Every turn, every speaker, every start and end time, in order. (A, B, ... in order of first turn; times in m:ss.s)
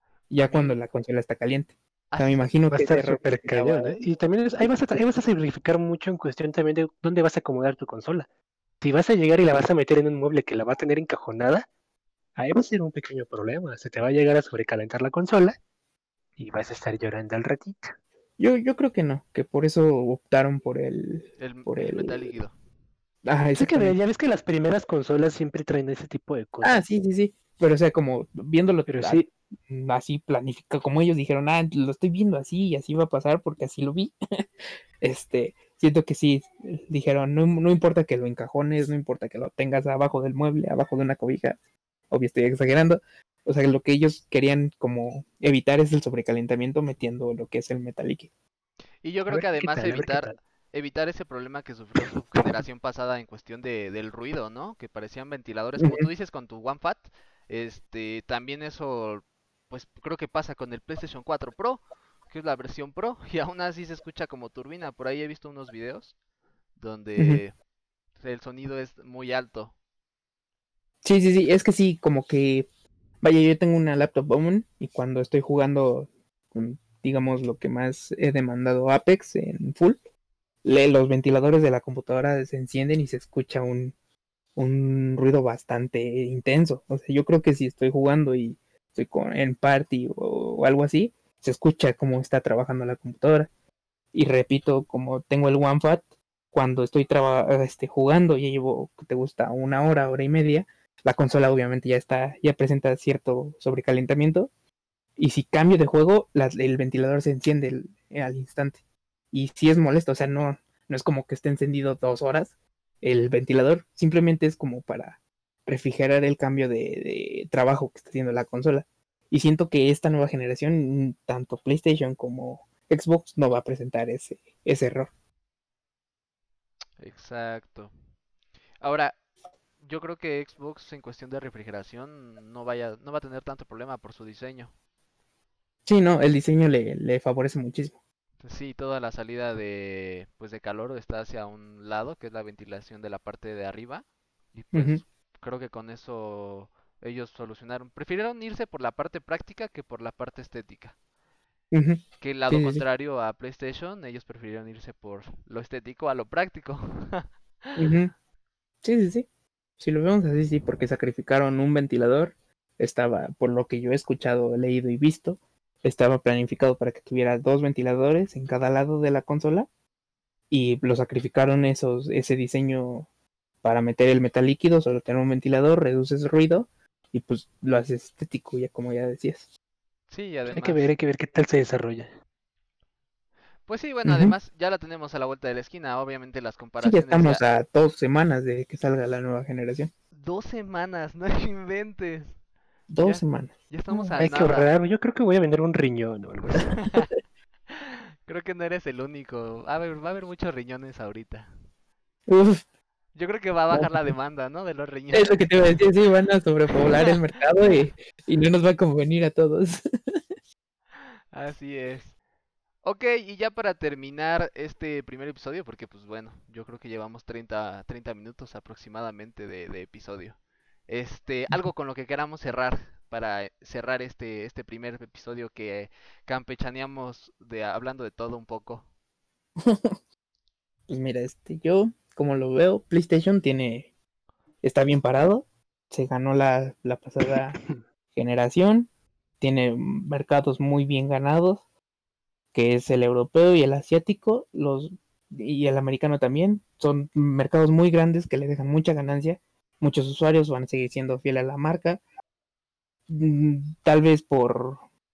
0:00.3-0:04.0 A
0:00.4-0:00.8 B
0:02.1-0:02.5 B
0:02.7-0:08.3 C
0:08.8-0:11.7 C
0:12.4-0:15.6 C
0:16.4-0:17.9 C
0:18.4-0:22.3 A
0:21.4-0:22.5 B
0:23.2-0:24.0 A
0:23.6-0:26.8 C
0:26.6-0:34.1 A
0:28.9-0:29.3 C
0:35.0-0:41.6 A
0:42.1-0:48.3 A
0:49.0-1:06.1 B
0:49.3-0:50.3 C
0:55.8-0:56.1 A
1:06.8-1:07.5 B
1:07.2-1:07.4 A
1:08.2-1:09.7 B
1:11.0-1:12.7 A
1:13.2-1:20.0 A
1:20.6-1:23.9 A
1:24.6-1:33.5 A
1:34.1-1:44.5 A
1:45.2-1:48.8 A
1:49.3-2:05.1 A
2:07.0-2:07.9 B
2:08.8-2:09.2 B
2:09.8-2:14.7 B
2:15.8-2:18.0 A
2:18.4-2:31.0 B
2:24.7-2:25.0 A
2:31.7-2:32.8 A
2:32.2-2:37.8 B
2:37.8-2:38.1 A
2:38.8-2:39.3 A
2:39.8-2:49.7 A
2:50.5-2:53.1 A
2:53.6-2:59.4 A
3:00.1-3:00.9 B
3:00.5-3:02.1 C
3:03.7-3:07.4 B
3:04.0-3:04.3 A
3:06.8-3:09.9 A
3:10.2-3:12.4 B
3:12.9-3:14.2 A
3:13.0-3:14.7 B
3:14.2-3:16.7 C
3:16.8-3:17.1 B
3:17.7-3:21.5 B
3:22.3-3:22.6 A
3:23.1-3:25.8 B
3:23.7-3:24.1 A
3:25.1-3:30.2 A
3:31.3-3:32.1 B
3:32.8-3:48.9 B
3:49.6-3:50.0 A
3:50.9-3:53.9 A
3:54.6-3:57.6 A
3:58.1-3:58.9 A
3:59.4-4:01.6 A
4:02.5-4:12.0 A
4:13.1-4:14.8 A